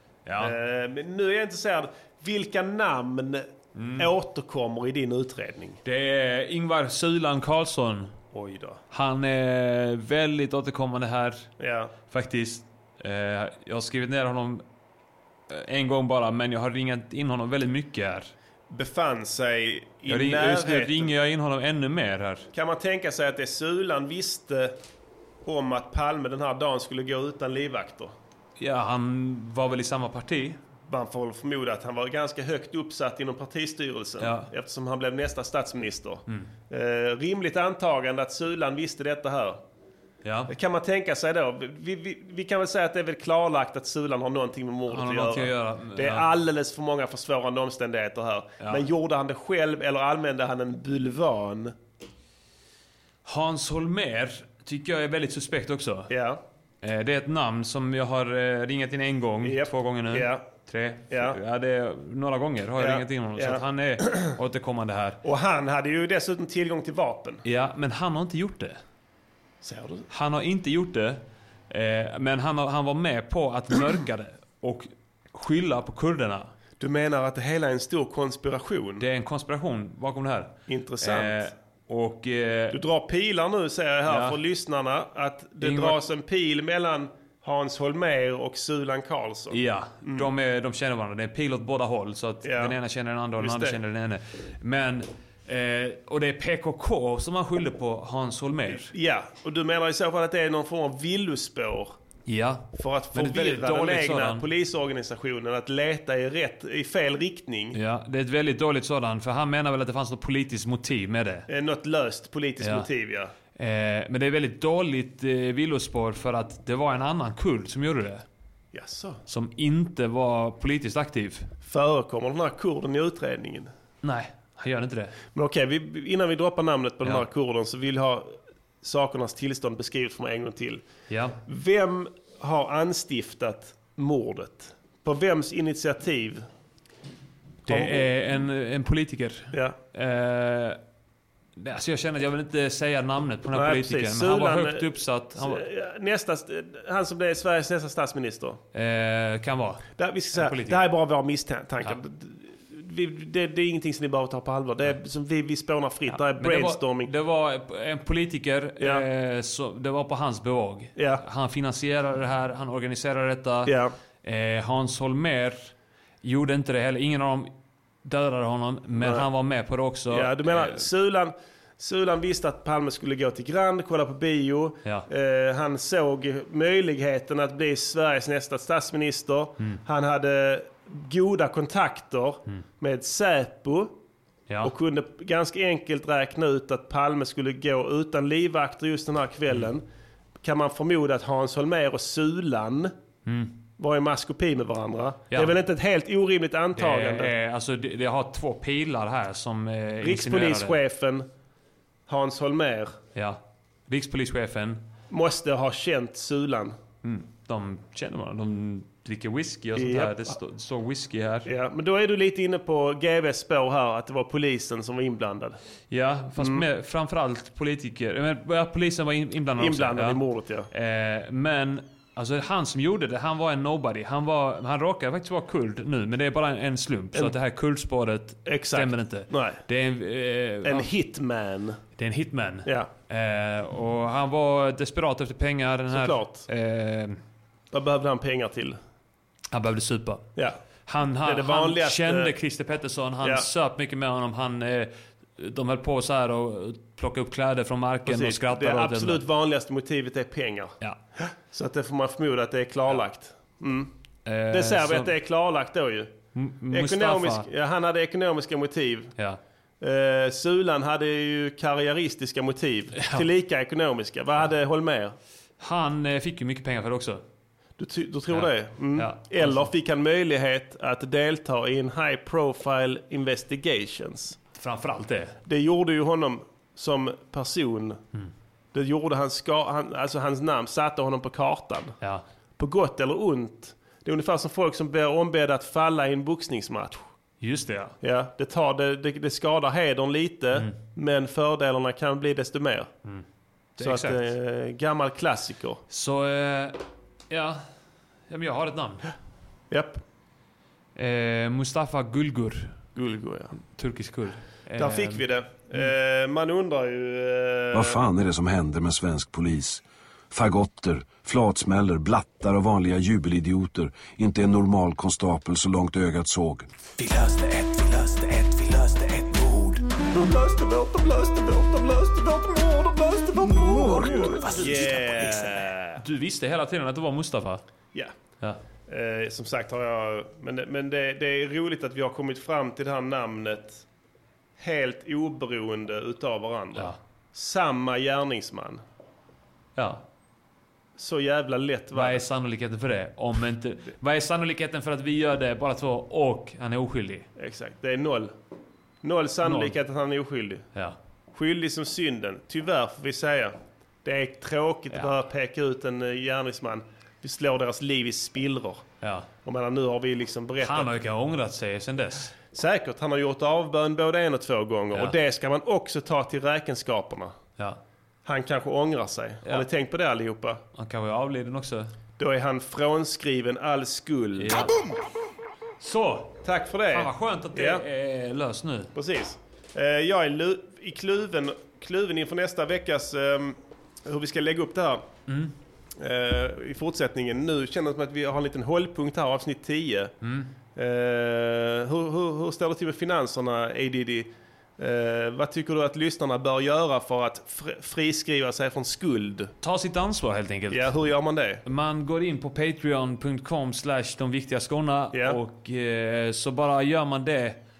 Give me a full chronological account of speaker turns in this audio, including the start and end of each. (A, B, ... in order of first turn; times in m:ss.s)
0:00.2-0:00.5 A
0:00.4-0:03.4 B
0:03.7-0:04.1 A
0:04.0-0:05.8 B
0:05.8-0:08.1 A
0:08.3-0:08.8 B
0:08.9-0:11.5 A
0:11.6-0:11.9 B
0:12.1-0:14.6 A
0:15.5-0:18.3 A
0:18.7-0:21.1 B
0:20.1-0:22.5 A
0:22.5-0:24.7 B
0:25.4-0:28.1 B
0:28.6-0:30.6 A
0:30.9-0:39.6 B
0:34.2-0:34.5 A
0:40.2-0:40.5 A
0:40.5-0:51.7 B
0:44.9-0:46.3 A
0:53.2-0:56.1 A
0:56.1-0:56.4 B
0:56.8-1:05.2 A
0:59.4-1:00.4 B
1:01.1-1:01.4 B
1:02.8-1:04.3 B
1:05.2-1:07.4 B
1:07.4-1:08.8 A
1:09.6-1:10.0 B
1:10.1-1:16.5 A
1:16.8-1:19.0 B
1:19.0-1:22.8 A
1:20.7-1:21.4 B
1:22.7-1:30.3 B
1:24.1-1:24.4 A
1:25.6-1:26.0 A
1:29.5-1:38.9 A
1:32.4-1:32.8 B
1:33.4-1:33.8 B
1:38.9-1:41.9 B
1:42.3-1:44.4 A
1:42.8-1:47.8 B
1:47.7-1:51.5 A
1:51.5-1:53.3 B
1:52.6-1:52.9 A
1:53.6-1:58.2 A
1:58.7-1:59.2 B
1:59.3-2:01.5 A
2:01.6-2:03.7 B
2:04.0-2:05.1 A
2:05.3-2:10.8 B
2:11.1-2:11.4 A
2:11.4-2:16.4 B
2:17.6-2:20.8 A
2:17.7-2:18.0 B
2:21.6-2:25.6 A
2:23.5-2:28.6 B
2:28.7-2:30.8 A
2:30.0-2:37.1 B
2:36.1-2:45.7 A
2:38.8-2:39.0 B
2:41.0-2:41.2 B
2:43.6-2:43.9 B
2:46.2-2:47.5 A
2:48.0-2:50.8 A
2:49.0-2:49.2 B
2:50.1-3:03.9 B
3:04.6-3:09.8 B
3:10.4-3:12.9 B
3:13.2-3:13.5 A
3:13.8-3:17.3 B
3:16.7-3:20.8 A
3:20.0-3:21.3 B
3:22.1-3:23.0 B
3:23.1-3:24.8 A
3:25.1-3:26.8 B
3:27.0-3:31.5 A
3:29.8-3:30.2 B
3:31.4-3:35.6 B
3:35.9-3:50.9 A
3:36.4-3:36.7 B
3:39.6-3:40.7 B
3:48.4-3:49.6 B
3:50.6-3:51.8 B
3:52.0-3:57.2 A
3:55.9-3:56.4 B
3:57.7-3:58.8 B
3:59.5-4:09.2 A
4:01.2-4:02.3 B
4:03.2-4:03.4 B
4:08.0-4:10.8 B
4:11.5-4:13.9 B
4:14.2-4:15.1 A
4:14.5-4:16.1 B
4:16.3-4:17.5 A
4:16.7-4:19.1 B
4:19.8-4:25.2 B
4:22.9-4:23.2 A
4:25.6-4:27.2 A
4:27.8-4:34.4 B
4:28.3-4:29.7 A
4:34.6-4:35.4 A
4:35.4-4:38.0 B
4:38.7-4:42.0 B
4:42.6-4:47.0 B
4:47.4-4:48.0 A
4:48.0-4:52.9 B
4:53.8-4:54.3 A
4:53.8-4:55.8 B
4:55.9-4:57.6 A
4:58.3-4:59.1 A
4:59.7-5:00.0 B
5:01.0-5:02.8 A
5:02.9-5:03.6 B
5:03.6-5:05.2 A
5:04.8-5:08.0 B
5:07.7-5:16.7 C
5:17.0-5:20.4 D
5:20.5-5:21.2 B
5:21.1-5:25.6 D
5:23.9-5:26.0 B
5:26.0-5:27.6 A
5:28.9-5:33.8 B
5:34.6-5:38.8 B
5:39.8-5:40.0 A
5:41.0-5:42.2 B
5:41.9-5:47.3 A
5:47.4-5:48.3 B
5:49.0-5:50.7 B
5:49.4-5:49.7 A
5:51.3-5:58.8 B
5:59.0-5:59.3 A
5:59.4-6:00.9 B
6:00.6-6:02.3 A
6:02.5-6:07.3 B
6:08.2-6:10.6 B
6:10.7-6:11.9 A
6:12.2-6:14.6 B
6:14.4-6:14.8 A
6:15.8-6:18.9 A
6:16.4-6:17.8 B
6:18.9-6:25.0 B
6:25.3-6:25.5 A
6:26.0-6:30.1 B
6:30.2-6:30.5 A
6:30.7-6:39.5 B
6:39.6-6:40.9 A
6:40.7-6:41.6 B
6:41.6-6:47.6 A
6:45.1-6:45.4 B